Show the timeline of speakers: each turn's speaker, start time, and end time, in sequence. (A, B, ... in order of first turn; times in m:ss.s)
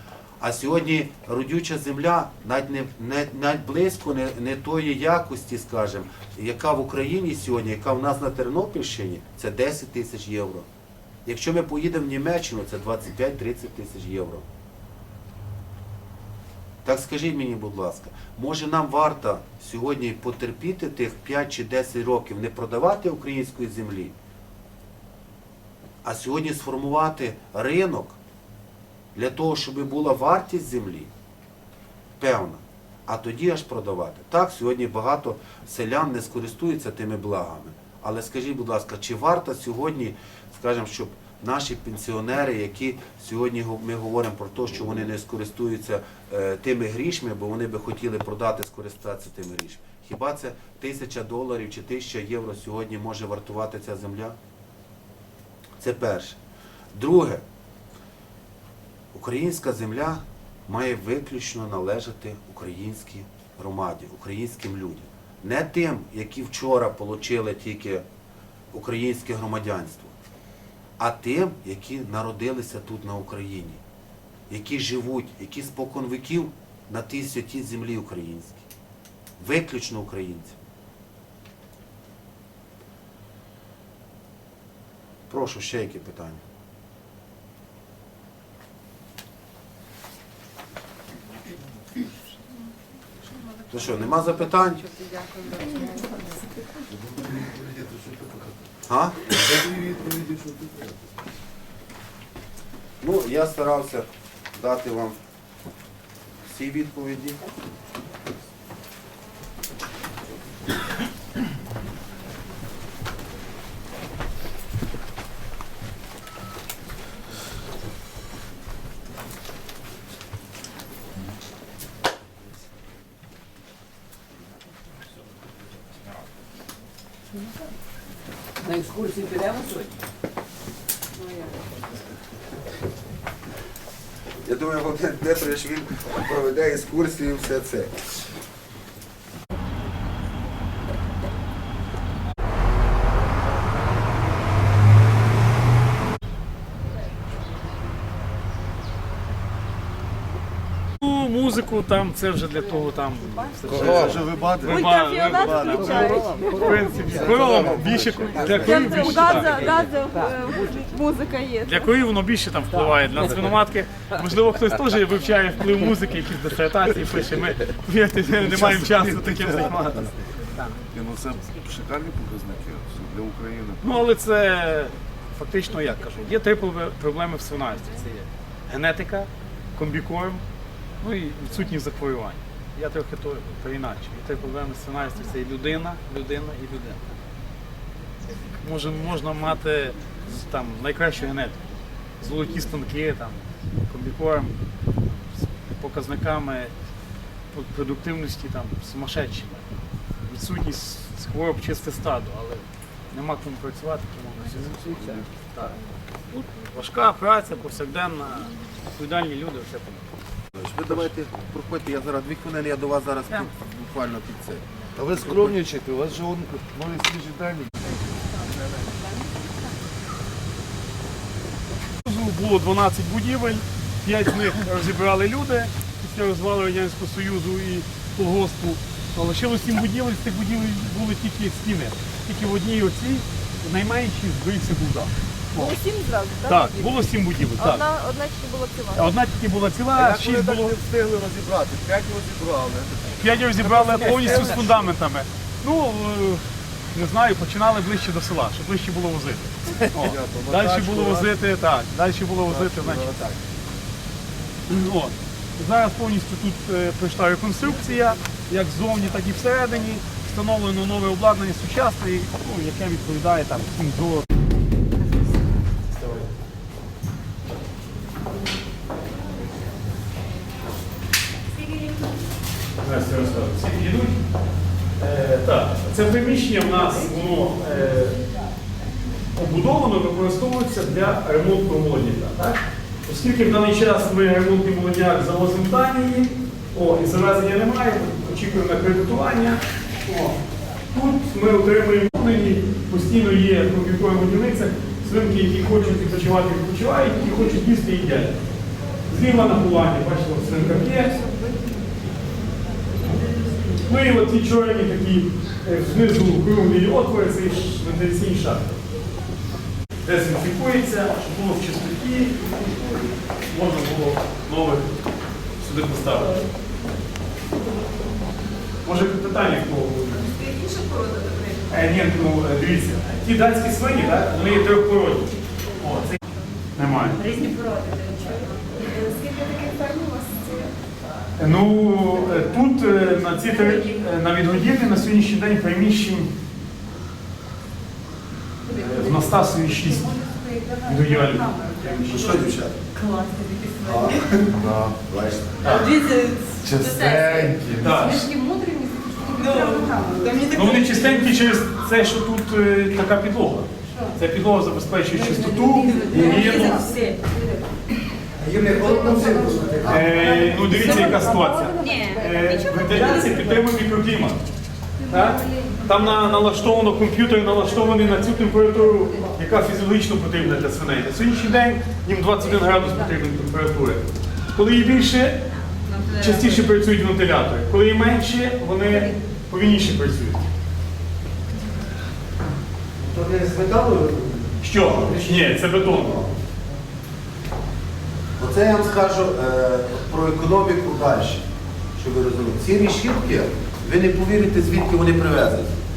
0:00.4-0:10.7 A
0:11.2-0:14.4 A
0:16.8-0:24.1 A
0:26.0-0:28.2 A
0:29.1-0:31.1 A
0:32.2-0:54.4 A
0:55.8-0:56.4 A
0:56.9-0:57.4 A
0:59.1-1:08.0 A
1:08.7-1:10.2 A
1:11.0-1:13.8 A
1:14.5-1:18.6 A
1:19.4-1:20.6 A
1:25.3-1:26.4 A
1:33.7-1:34.8 A
1:34.9-1:36.0 B
1:35.6-1:36.4 C
1:36.9-1:38.6 D
1:38.9-1:39.4 A
1:39.3-1:41.1 D
1:43.0-1:45.2 A
1:46.4-1:47.4 A
2:08.6-2:09.2 E
2:08.8-2:09.9 B
2:11.2-2:11.6 B
2:14.4-2:17.9 A
2:31.0-2:39.9 E
2:33.6-2:39.6 D
2:34.6-2:36.9 C
2:38.5-2:41.9 C
2:41.6-2:50.7 E
2:48.4-2:50.1 D
2:50.9-2:53.8 D
2:53.8-3:00.4 E
3:01.0-3:07.0 E
3:08.4-3:11.6 E
3:12.2-3:16.7 E
3:17.5-3:19.7 E
3:20.2-3:25.8 E
3:24.7-3:25.3 D
3:26.3-3:30.0 E
3:30.6-3:35.6 A
3:35.0-3:38.0 D
3:42.0-3:55.7 E
3:55.5-3:57.0 C
3:56.5-3:57.8 E
3:57.6-3:59.1 C
3:58.9-4:00.8 E
3:59.9-4:04.9 D
4:03.2-4:13.2 E
4:09.8-4:11.3 D
4:12.5-4:13.6 D
4:14.7-4:24.2 E
4:25.9-4:26.3 E
4:31.5-4:32.2 C
4:32.8-4:34.2 E
4:35.0-4:38.2 E
4:39.3-4:50.4 E
4:50.9-4:58.4 E
4:59.1-5:01.1 E
5:03.2-5:03.6 C
5:03.8-5:08.8 E
5:10.0-5:14.9 E
5:15.6-5:16.3 E
5:18.8-5:20.2 E
5:20.1-5:21.7 C
5:21.7-5:26.2 E
5:26.8-5:27.2 E
5:27.1-5:30.7 C
5:31.4-5:36.3 E
5:33.4-5:33.8 C
5:38.6-5:44.3 B
5:38.8-5:40.1 E
5:40.8-5:41.5 E
5:41.8-5:42.8 A
5:43.8-5:44.5 A
5:44.5-5:45.0 D
5:45.0-5:45.8 A
5:45.6-5:47.5 C
5:46.6-5:48.1 D
5:46.9-5:47.3 B
5:47.8-5:48.3 E
5:47.8-5:51.0 B
5:49.4-5:51.3 C
5:50.5-5:56.9 E
5:53.9-5:54.2 B
5:55.2-5:57.7 B
5:55.8-5:57.2 C
5:58.4-6:00.1 A
5:58.6-6:03.6 B
5:59.8-6:04.4 E
6:00.8-6:01.2 C
6:01.8-6:03.4 C
6:05.1-6:15.4 E
6:05.1-6:05.9 C
6:05.2-6:05.9 B
6:07.9-6:09.3 B
6:15.8-6:16.6 C
6:16.2-6:20.5 E
6:23.0-6:26.3 A
6:24.6-6:26.2 E
6:28.4-6:31.4 A
6:32.0-6:35.8 A